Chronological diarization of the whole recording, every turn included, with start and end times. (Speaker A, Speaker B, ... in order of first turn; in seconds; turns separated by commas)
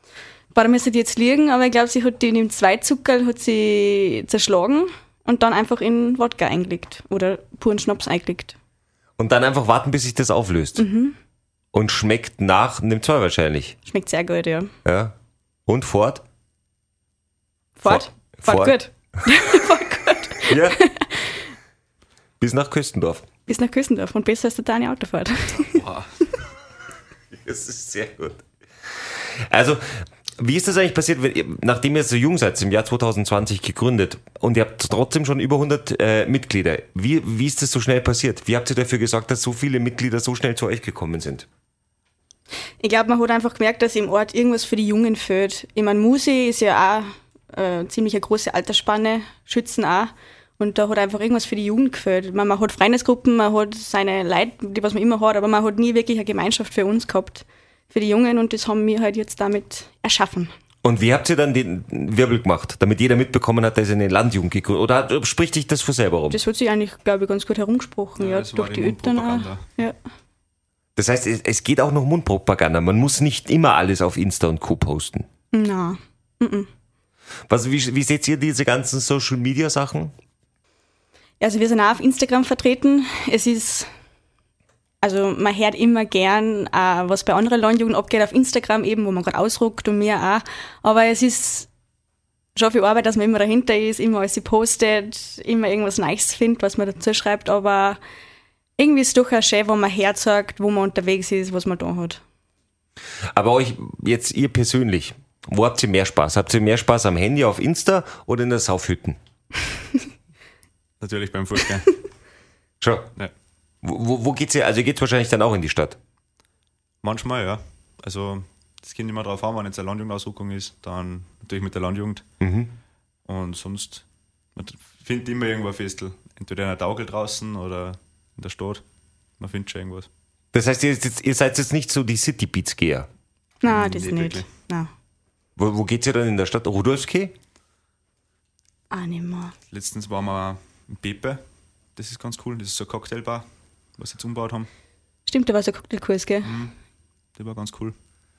Speaker A: 0.5-8.6, Speaker B: 9.2-10.8, Speaker A: 10.8-11.2, Speaker B: 11.7-13.8, Speaker A: 13.9-14.7, Speaker B: 14.8-15.2, Speaker B: 15.7-16.2, Speaker A: 17.8-21.2, Speaker B: 17.9-18.8, Speaker B: 20.5-20.8, Speaker B: 22.4-23.2, Speaker A: 23.5-25.7, Speaker C: 25.6-26.1, Speaker B: 27.4-28.4, Speaker B: 29.5-29.9, Speaker B: 30.4-41.5, Speaker A: 42.8-60.5, Speaker B: 60.8-66.4, Speaker A: 66.3-70.0, Speaker C: 68.2-69.7, Speaker B: 71.0-75.3, Speaker A: 75.5-76.7, Speaker B: 77.5-80.1, Speaker A: 81.4-83.9, Speaker A: 85.0-91.7, Speaker A: 92.6-98.0, Speaker A: 98.8-102.2, Speaker B: 103.3-109.2, Speaker C: 111.0-111.9, Speaker B: 112.8-113.1, Speaker B: 113.8-116.0, Speaker C: 117.0-122.2, Speaker B: 122.4-122.7, Speaker C: 123.3-124.0, Speaker C: 124.6-128.8, Speaker C: 129.4-130.1, Speaker B: 130.5-133.1, Speaker A: 133.6-134.9, Speaker C: 133.7-134.5, Speaker B: 135.6-137.3, Speaker A: 138.9-139.5, Speaker C: 139.7-141.4, Speaker C: 142.0-143.4, Speaker C: 144.0-144.7, Speaker A: 145.3-146.5, Speaker C: 146.4-146.8, Speaker C: 147.4-147.9